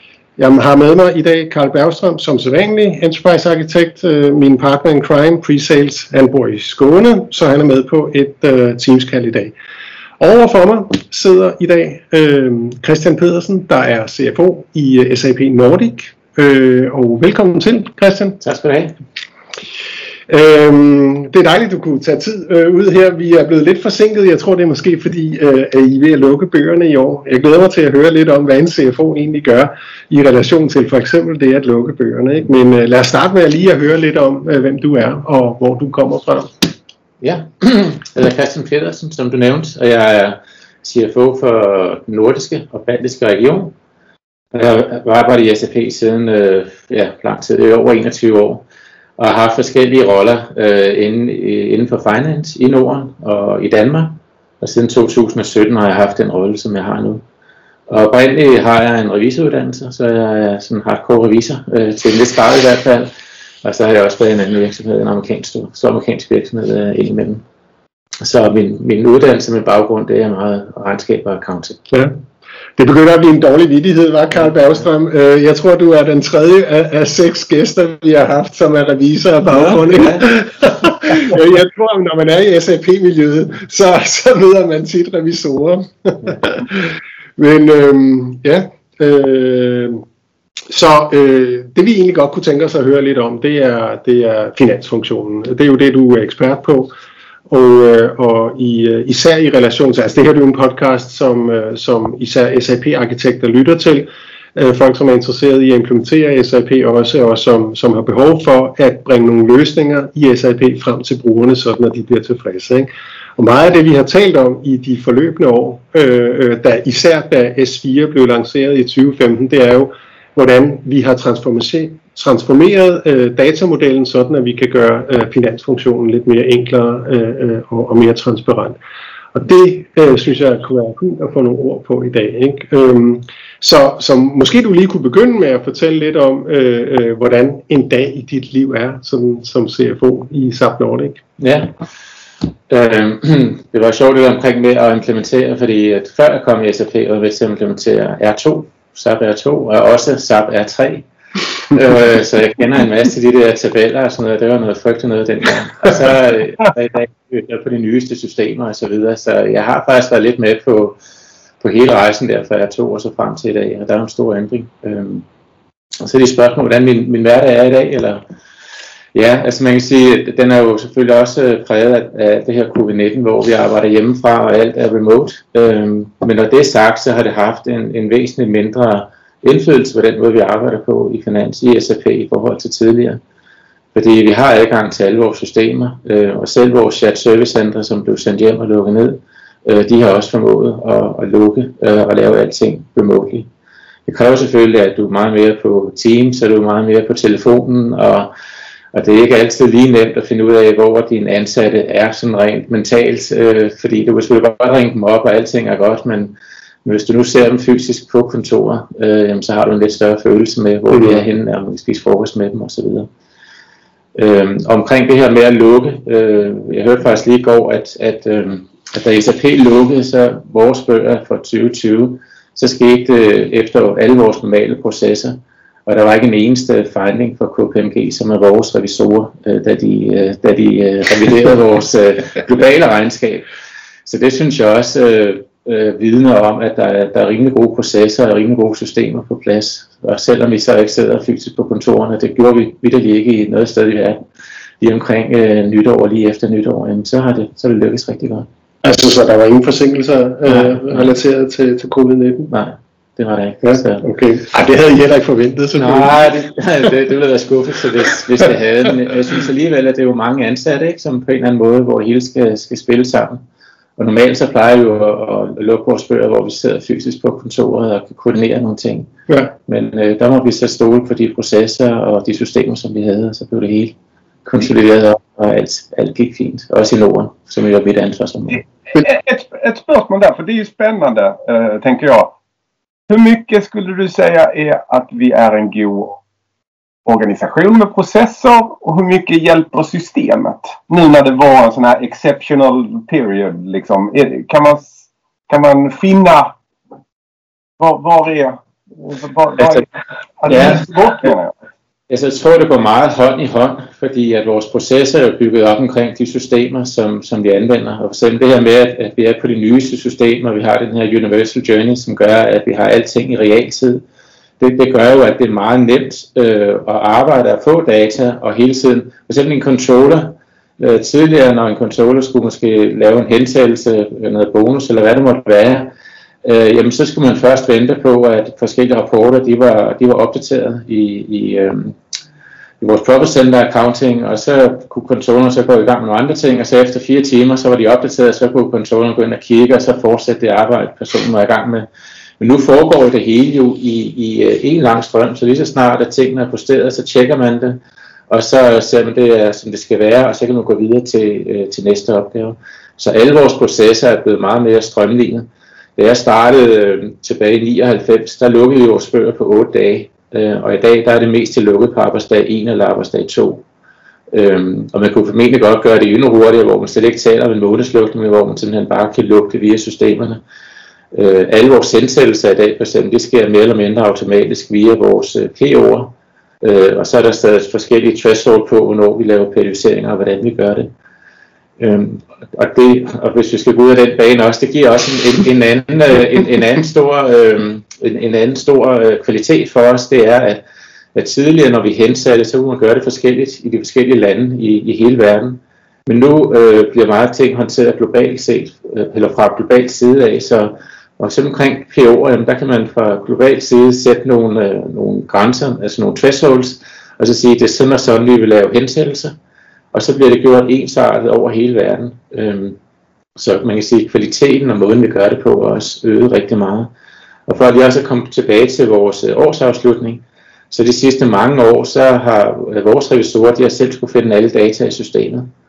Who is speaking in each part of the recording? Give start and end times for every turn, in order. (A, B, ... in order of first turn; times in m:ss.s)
0:00.4-0:09.5 A
0:10.2-0:18.4 A
0:18.4-0:19.0 B
0:20.3-0:36.5 A
0:37.2-0:43.7 B
0:44.5-0:48.6 B
0:49.2-0:57.2 B
0:57.9-1:03.1 B
1:03.6-1:07.4 B
1:08.2-1:11.8 B
1:12.8-1:30.0 A
1:19.5-1:20.2 B
1:30.7-1:36.9 A
1:37.5-2:08.8 A
2:09.3-2:21.2 A
2:21.4-2:21.7 B
2:22.7-2:31.0 B
2:31.7-2:41.0 B
2:41.6-2:45.2 B
2:46.0-2:48.2 B
2:49.1-3:03.2 B
3:03.9-3:13.5 B
3:14.0-3:18.3 B
3:18.9-3:33.1 B
3:34.1-3:53.5 B
3:54.0-4:04.2 B
4:04.8-4:08.5 B
4:08.8-4:12.5 A
4:10.5-4:11.1 B
4:12.5-4:14.0 B
4:13.6-4:16.2 A
4:15.8-4:23.4 B
4:24.0-4:33.9 B
4:29.3-4:29.5 A
4:34.4-4:38.6 B
4:38.9-4:42.3 C
4:43.1-4:46.2 C
4:47.0-4:56.5 C
4:57.8-4:59.9 C
4:59.6-4:59.8 B
5:00.4-5:01.5 C
5:00.5-5:00.8 B
5:02.1-5:14.0 B
5:14.6-5:25.9 B
5:26.4-5:32.0 B
5:32.8-5:41.9 B
5:42.4-6:03.6 B
6:04.3-6:10.4 B
6:11.1-6:20.9 B
6:21.8-6:30.6 B
6:31.1-6:49.3 B
6:49.9-6:52.8 B
6:53.4-6:56.9 B
6:57.5-7:05.5 B